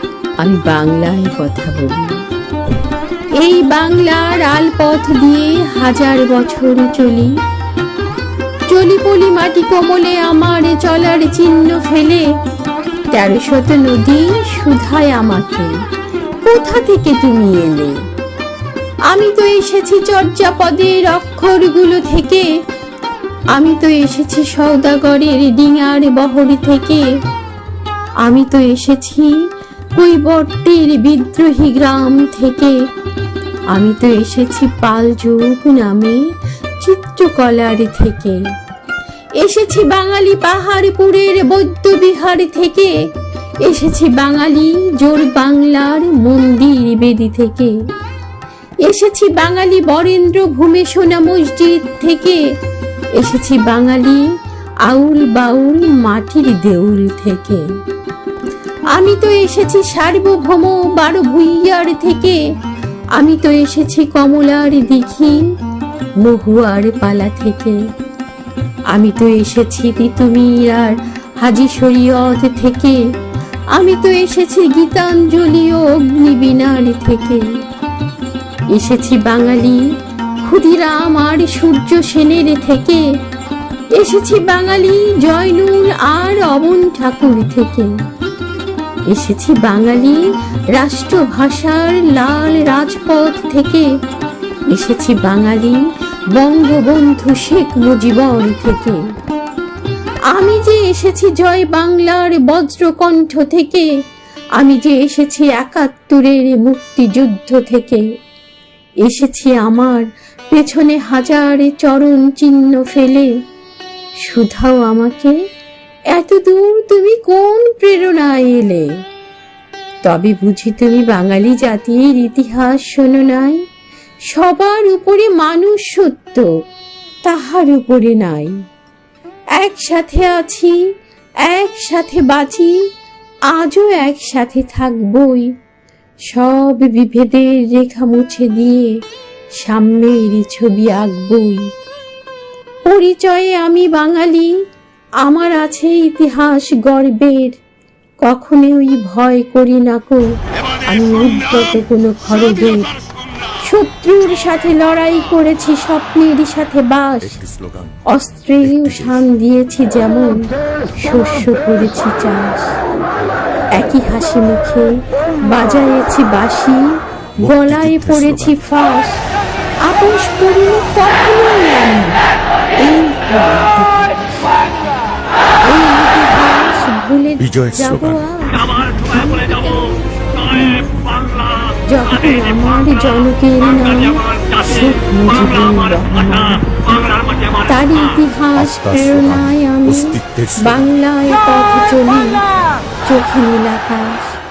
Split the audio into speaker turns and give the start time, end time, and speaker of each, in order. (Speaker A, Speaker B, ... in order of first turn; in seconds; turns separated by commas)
Speaker A: 0.4-2.2, Speaker A: 3.4-7.3, Speaker A: 8.7-12.3, Speaker A: 13.1-15.7, Speaker A: 16.4-18.0, Speaker A: 19.1-22.5, Speaker A: 23.5-27.1, Speaker A: 28.2-29.4, Speaker A: 29.9-32.8, Speaker A: 33.7-38.4, Speaker A: 39.4-42.9, Speaker A: 43.6-47.8, Speaker A: 48.8-52.4, Speaker A: 53.2-54.2, Speaker A: 54.9-57.6, Speaker A: 58.9-62.4, Speaker A: 63.2-65.4, Speaker A: 66.2-67.8, Speaker A: 68.9-73.0, Speaker A: 73.8-77.5, Speaker A: 78.7-79.8, Speaker A: 80.4-83.0, Speaker A: 83.9-87.9, Speaker A: 89.1-90.2, Speaker A: 90.8-93.9, Speaker A: 94.7-95.8, Speaker A: 96.3-99.0, Speaker A: 100.3-103.9, Speaker A: 104.6-108.1, Speaker A: 109.0-113.3, Speaker A: 114.2-115.4, Speaker A: 116.1-118.9, Speaker A: 120.0-123.6, Speaker A: 124.3-126.5, Speaker A: 127.2-128.6, Speaker A: 129.6-130.8, Speaker A: 131.4-132.8, Speaker A: 133.5-135.5, Speaker A: 136.3-139.0, Speaker A: 139.6-141.7, Speaker A: 142.8-144.5, Speaker A: 145.2-147.6, Speaker A: 148.2-150.2, Speaker A: 150.8-152.9, Speaker A: 153.6-157.4, Speaker B: 157.3-158.0, Speaker A: 158.1-162.7, Speaker B: 158.7-159.2, Speaker A: 163.8-164.9, Speaker A: 165.5-166.9, Speaker A: 167.4-169.2, Speaker B: 167.4-168.6, Speaker A: 169.9-172.2, Speaker A: 172.8-174.5, Speaker A: 175.6-180.9, Speaker B: 177.4-178.2, Speaker A: 181.9-186.8, Speaker A: 187.7-192.4, Speaker B: 188.6-190.8, Speaker A: 193.1-194.4